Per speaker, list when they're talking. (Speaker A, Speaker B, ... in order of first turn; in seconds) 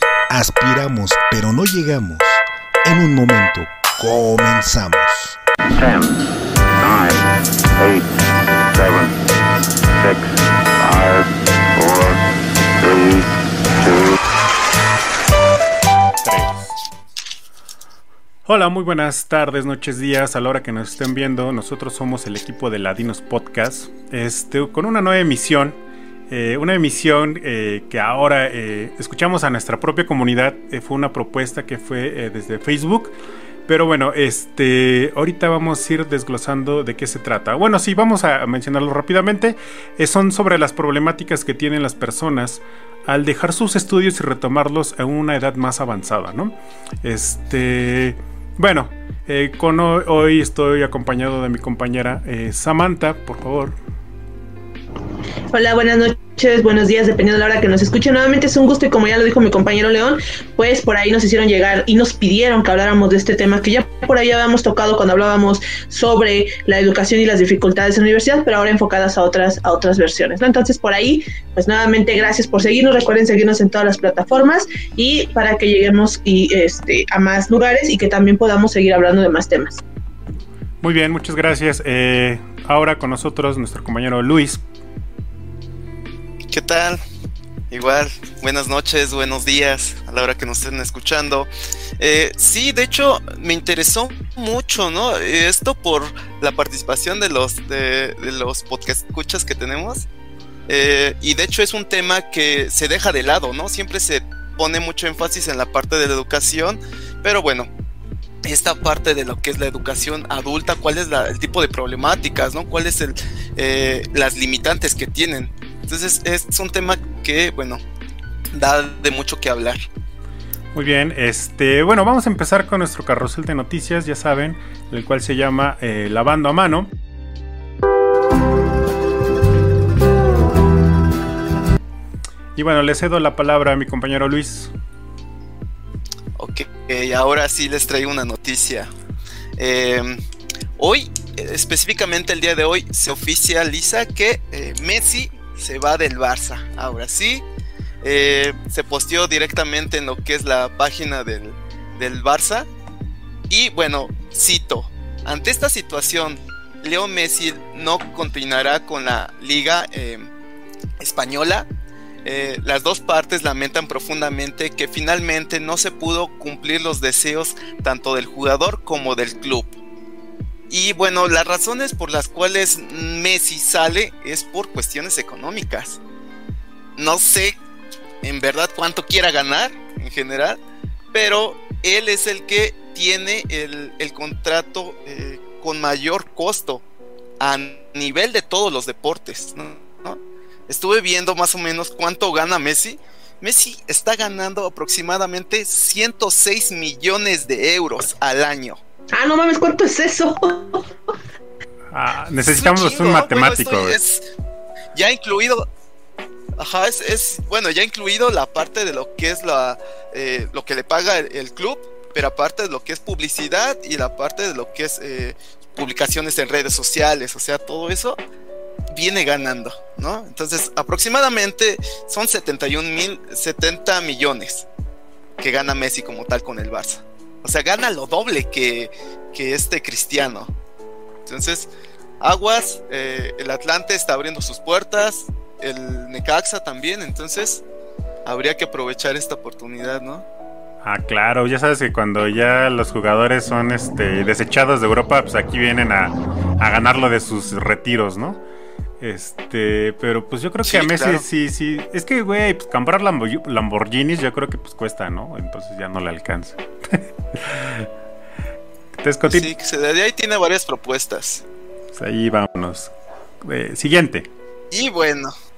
Speaker A: 0.3-5.4
Speaker B: 5.7-6.2, 6.8-7.2, 7.8-8.1, 8.7-9.2, 9.9-12.2, 12.8-14.1
Speaker C: 16.2-16.7, 18.4-25.8, 26.3-33.1, 33.7-53.8, 80.8-84.6, 120.7-126.9, 132.5-134.7, 201.9-204.0, 240.8-248.4, 249.0-257.9, 259.0-259.5, 261.9-264.3
Speaker D: 55.5-79.8, 199.1-200.8
Speaker E: 86.5-87.0, 87.7-100.1, 100.7-107.7, 108.4-117.8, 118.5-119.8, 136.4-138.9, 139.6-140.2, 140.8-147.4, 148.0-152.7, 153.5-160.3, 161.0-161.7, 162.2-169.8, 170.7-176.0, 176.9-177.6, 178.2-180.6, 181.1-186.8, 187.4-198.8, 202.5-204.2, 204.9-205.7, 206.6-218.2, 218.9-224.7, 225.4-230.5, 231.2-237.6, 238.2-240.2, 250.6-251.2, 259.2-261.4, 264.7-265.3